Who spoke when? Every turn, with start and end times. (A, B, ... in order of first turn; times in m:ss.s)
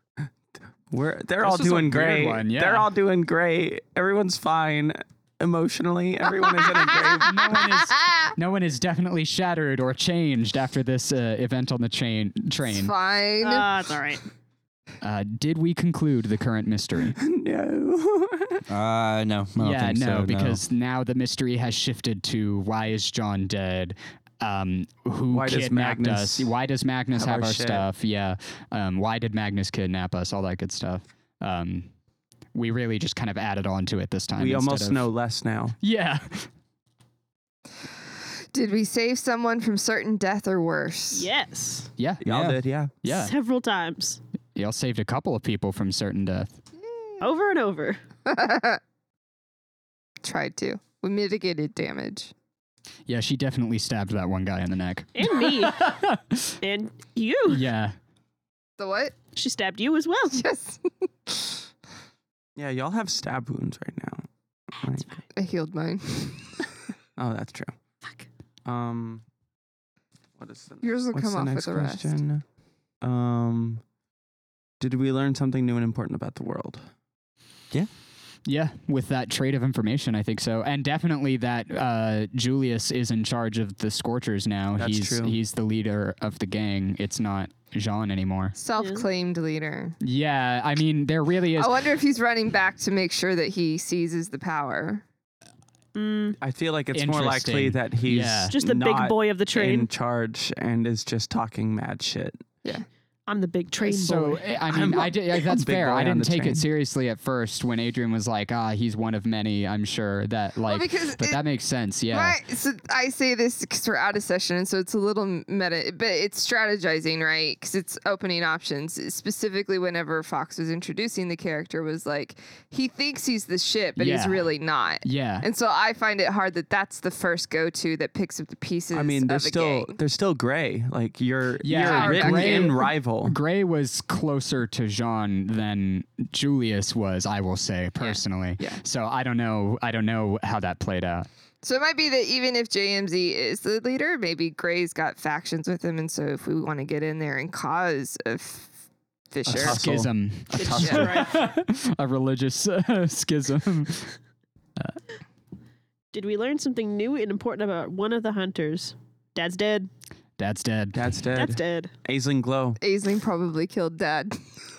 0:00.9-0:07.6 A
0:01.4-0:02.9 B
0:07.2-0:12.9 B
0:12.6-0:13.7 C
0:13.4-0:14.2 D
0:15.0-0:17.2 B
0:17.1-0:18.6 A
0:18.7-0:20.6 E
0:19.6-0:31.9 B
0:25.3-0:26.5 A
0:27.1-0:27.9 A
0:32.5-0:35.1 B
0:34.4-0:35.8 A
0:35.8-0:36.5 B
0:38.5-0:41.3 C
0:41.1-0:41.9 D
0:42.0-0:42.2 B
0:42.2-0:43.0 A
0:42.2-0:42.6 E
0:43.0-0:43.3 B
0:43.0-0:44.2 D
0:44.5-0:46.6 B
0:46.8-0:47.2 C
0:47.2-0:48.0 D
0:48.2-0:48.8 C
0:50.2-0:52.3 C
0:53.1-0:56.6 B
0:55.1-0:55.8 D
0:56.6-0:57.6 D
0:57.5-0:57.9 B
0:58.8-0:59.1 C
0:59.3-1:00.4 D
1:00.3-1:01.6 C
1:02.6-1:04.3 A
1:04.8-1:05.2 A
1:05.3-1:06.7 C
1:07.2-1:07.7 A
1:08.6-1:09.2 A
1:10.4-1:12.4 A
1:10.8-1:12.1 C
1:13.0-1:13.8 A
1:14.8-1:16.8 A
1:18.4-1:28.5 B
1:24.8-1:25.4 A
1:28.5-1:30.0 C
1:28.8-1:29.1 D
1:30.0-1:31.8 B
1:31.6-1:35.0 C
1:35.9-1:36.4 D
1:36.4-1:42.5 A
1:36.9-1:38.5 B
1:38.5-1:39.9 D
1:43.3-1:44.4 D
1:43.8-1:52.4 B
1:44.7-1:46.6 A
1:50.6-1:51.4 C
1:52.1-2:10.0 C
2:04.0-2:05.5 B
2:08.9-2:13.4 A
2:11.6-2:21.3 B
2:11.7-2:12.8 C
2:18.0-2:18.8 C
2:21.6-2:28.7 C
2:29.3-2:29.8 C
2:29.4-2:31.2 A
2:29.6-2:34.2 B
2:30.6-2:31.3 D
2:36.1-2:39.9 D
2:40.4-2:41.2 B
2:40.9-2:42.8 A
2:41.3-2:41.9 D
2:42.8-2:44.3 C